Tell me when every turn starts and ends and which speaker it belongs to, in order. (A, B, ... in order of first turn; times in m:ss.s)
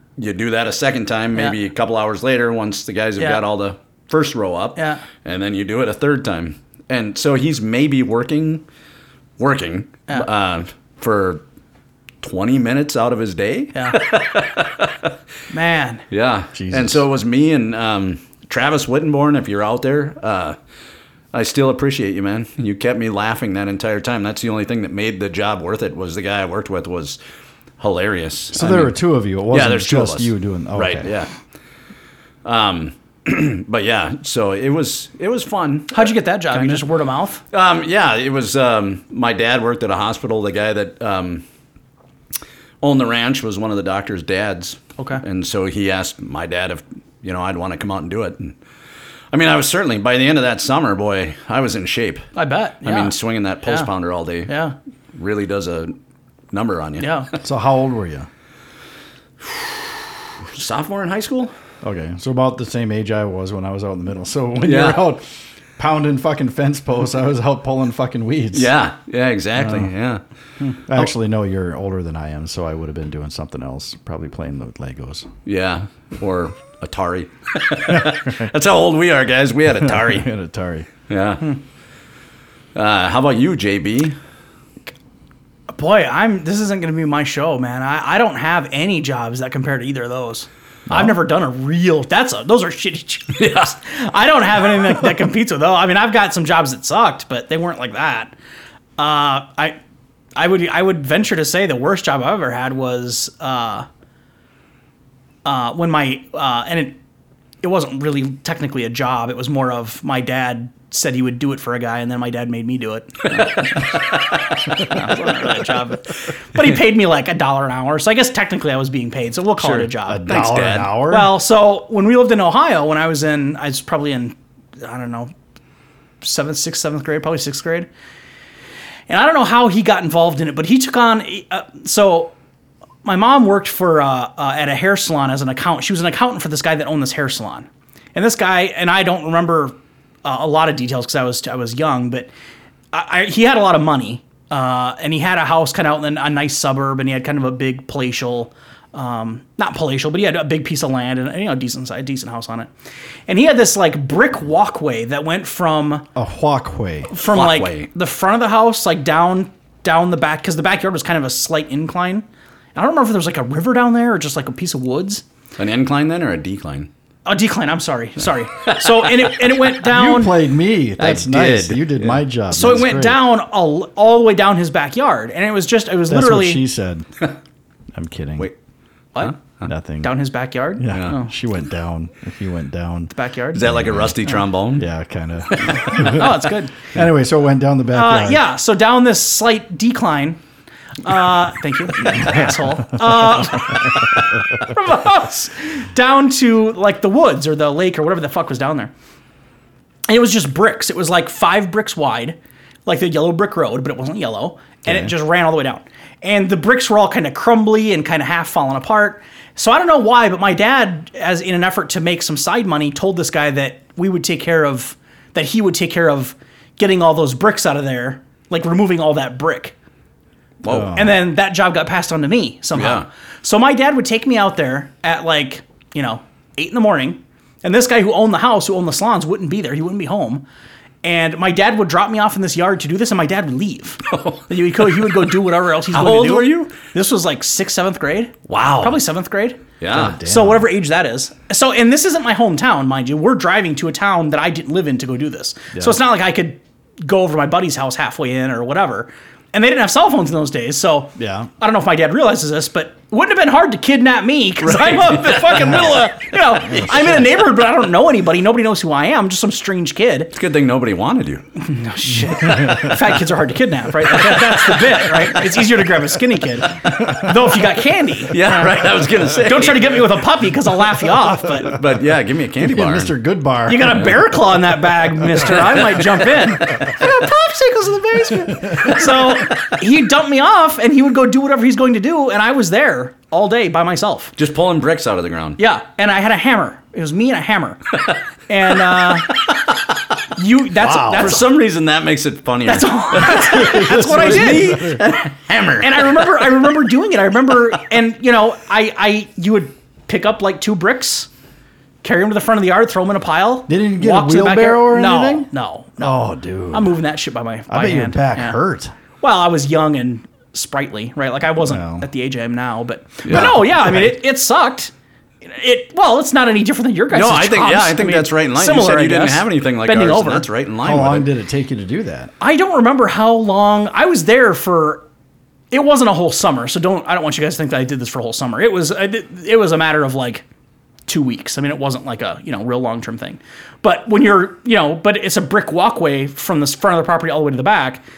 0:00.2-0:08.6 A
0:04.8-0:05.0 B
0:09.4-0:11.4 A
0:12.2-0:15.1 A
0:15.5-0:16.0 B
0:16.1-0:20.6 A
0:16.5-0:17.0 C
0:21.3-0:27.2 A
0:27.8-0:29.0 A
0:28.5-0:31.1 C
0:29.5-0:31.3 A
0:32.4-0:36.9 A
0:35.9-0:37.4 B
0:37.5-0:41.4 A
0:42.8-0:48.6 A
0:49.3-0:52.3 A
0:52.4-0:53.9 B
0:52.8-0:54.6 A
0:54.5-0:54.8 B
0:55.2-0:56.0 A
0:56.5-0:57.2 A
0:57.0-0:57.3 B
0:57.4-0:58.3 C
0:59.4-0:59.7 A
1:00.5-1:01.5 A
1:01.8-1:05.2 C
1:04.6-1:05.0 A
1:05.8-1:08.7 C
1:08.5-1:10.2 A
1:09.6-1:09.9 C
1:10.9-1:15.3 C
1:15.4-1:20.3 A
1:18.0-1:18.3 C
1:19.8-1:20.9 C
1:21.1-1:21.5 A
1:22.8-1:24.2 A
1:25.7-1:38.3 B
1:33.4-1:33.7 A
1:39.0-1:39.8 B
1:40.4-1:43.9 B
1:45.4-1:47.0 B
1:47.6-2:00.3 B
1:53.4-1:54.0 A
1:59.6-2:01.0 A
2:00.0-2:01.4 C
2:01.1-2:05.3 B
2:06.2-2:07.9 B
2:09.1-2:12.3 B
2:13.0-2:22.3 B
2:22.9-2:32.7 B
2:33.3-2:36.0 B
2:36.2-2:37.1 C
2:37.1-2:45.2 B
2:37.3-2:37.9 A
2:45.6-2:46.9 A
2:47.3-2:50.4 B
2:48.6-2:49.6 A
2:49.8-2:53.2 C
2:51.0-2:52.2 A
2:52.5-2:56.6 B
2:56.1-2:57.1 C
2:57.9-2:58.5 C
2:59.2-2:59.7 A
2:59.6-3:00.1 C
3:00.0-3:01.3 B
3:00.8-3:04.2 C
3:03.1-3:03.8 B
3:03.5-3:04.9 A
3:04.7-3:06.4 C
3:05.5-3:06.3 A
3:05.8-3:06.8 B
3:06.9-3:08.4 C
3:07.9-3:10.4 B
3:11.0-3:18.9 B
3:20.1-3:39.8 B
3:24.8-3:25.1 C
3:40.6-3:41.0 A
3:40.7-3:41.1 C
3:40.9-3:50.4 B
3:42.8-3:43.1 A
3:51.0-3:59.6 B
3:54.1-3:55.3 A
3:55.9-3:56.7 A
3:58.5-3:59.0 A
3:59.8-4:00.2 A
3:59.9-4:00.7 C
4:00.2-4:20.3 B
4:05.7-4:06.0 C
4:11.2-4:11.5 C
4:14.6-4:16.1 A
4:20.3-4:21.5 A
4:21.6-4:31.8 B
4:22.3-4:23.0 C
4:24.0-4:25.4 A
4:28.3-4:30.2 A
4:31.4-4:33.1 A
4:32.6-4:34.3 C
4:33.7-4:44.3 B
4:35.4-4:36.9 A
4:44.4-4:45.6 A
4:45.6-4:47.8 B
4:48.5-4:49.3 B
4:50.4-4:51.5 B
4:50.8-4:51.4 C
4:50.9-4:56.6 A
4:52.7-4:54.9 B
4:53.2-4:55.0 C
4:55.8-5:01.3 B
5:02.0-5:06.2 B
5:03.7-5:05.5 C
5:06.0-5:07.0 C
5:06.7-5:08.6 B
5:07.7-5:08.9 C
5:09.2-5:14.9 B
5:11.6-5:12.1 C
5:13.2-5:13.6 A
5:13.3-5:14.2 C
5:15.4-5:20.5 B
5:17.1-5:21.3 A
5:20.8-5:22.3 C
5:22.4-5:25.1 B
5:25.7-5:30.4 B
5:31.1-5:38.0 B